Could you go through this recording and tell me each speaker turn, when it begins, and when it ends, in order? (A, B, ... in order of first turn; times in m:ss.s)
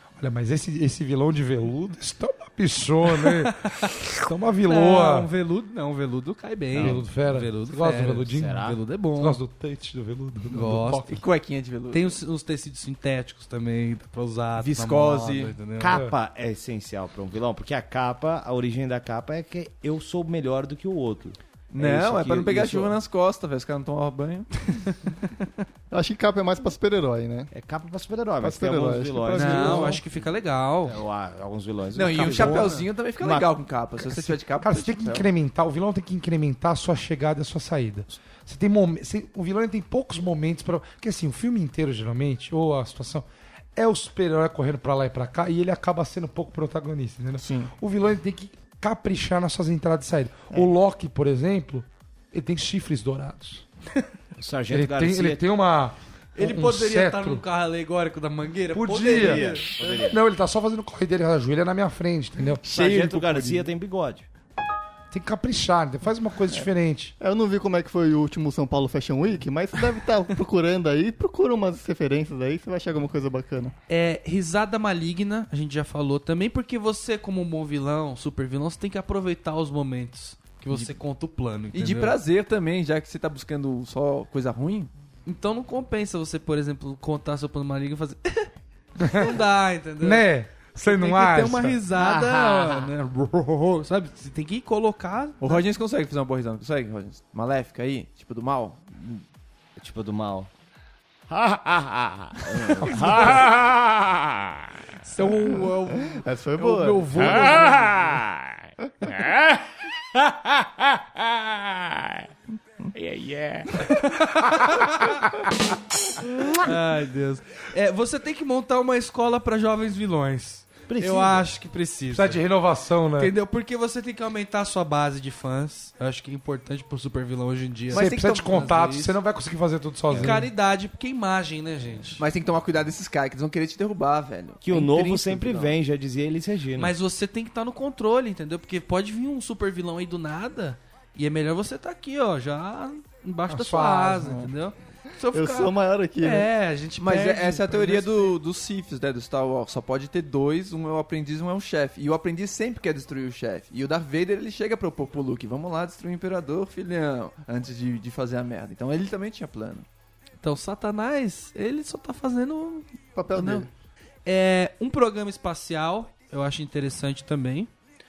0:00.2-0:03.6 A
0:03.2-0:03.9 B
0:04.1-0:05.3 A
0:04.6-0:09.4 B
0:06.7-0:08.6 A
0:06.7-0:07.0 C
0:08.3-0:08.8 C
0:09.2-0:11.2 A
0:10.5-0:11.2 B
0:11.1-0:12.2 D
0:11.9-0:16.0 B
0:14.6-0:15.5 D
0:15.8-0:23.0 C
0:21.7-0:24.9 D
0:25.9-0:27.5 E
0:27.5-0:30.1 C
0:28.4-0:30.0 E
0:29.3-0:31.0 B
0:30.8-0:33.5 C
0:31.9-0:35.3 D
0:32.2-0:32.8 B
0:34.1-0:53.6 A
0:47.4-0:47.7 E
0:54.4-0:55.4 C
0:54.7-0:57.4 A
0:56.4-0:59.7 B
0:58.7-1:02.6 A
0:59.1-1:00.2 C
1:02.6-1:04.3 C
1:02.6-1:03.7 D
1:05.1-1:07.2 A
1:07.2-1:13.7 E
1:13.9-1:22.2 B
1:21.7-1:24.9 D
1:25.2-1:28.5 B
1:29.0-1:29.4 A
1:29.0-1:30.2 B
1:30.0-1:31.8 A
1:30.8-1:35.6 B
1:32.0-1:32.9 C
1:35.4-1:39.2 D
1:39.8-1:40.5 C
1:41.3-1:44.8 C
1:43.0-1:43.4 B
1:45.0-1:48.2 B
1:46.1-1:47.5 E
1:47.1-1:52.2 C
1:52.9-1:53.8 C
1:53.8-1:55.2 B
1:56.6-2:02.4 B
2:00.9-2:01.4 C
2:02.1-2:03.3 A
2:03.2-2:09.2 B
2:07.9-2:08.6 D
2:07.9-2:10.5 A
2:10.1-2:10.3 C
2:10.1-2:12.2 B
2:12.2-2:15.8 D
2:14.6-2:16.9 C
2:16.8-2:28.4 B
2:23.5-2:24.4 A
2:25.3-2:26.5 E
2:27.0-2:39.8 D
2:40.4-2:43.6 B
2:43.1-2:43.7 E
2:44.2-2:47.7 B